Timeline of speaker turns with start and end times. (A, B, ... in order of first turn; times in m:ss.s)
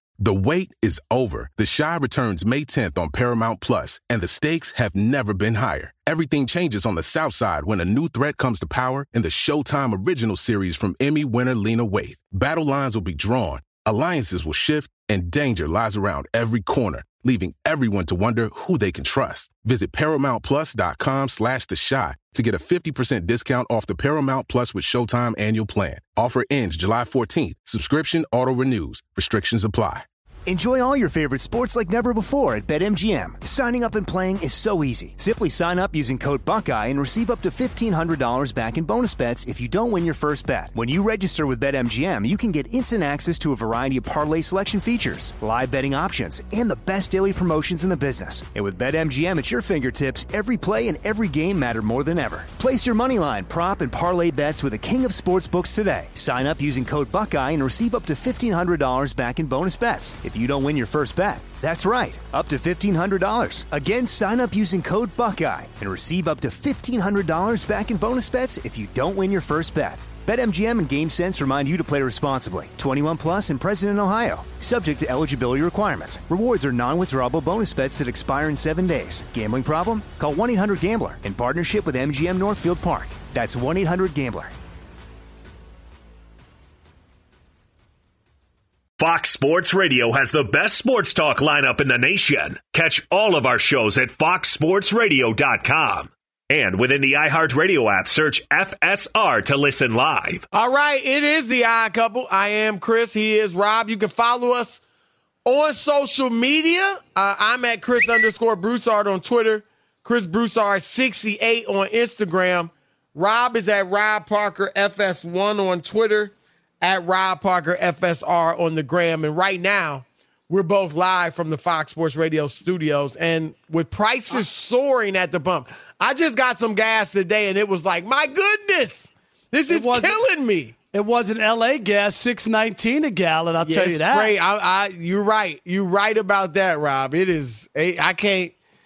0:00.2-0:30.1 A
0:30.5-1:24.5 B
1:29.0-1:40.5 C
1:40.5-1:44.8 D
1:45.4-2:10.7 D
2:09.7-2:10.2 E
2:10.9-2:14.3 E
2:13.6-2:18.5 D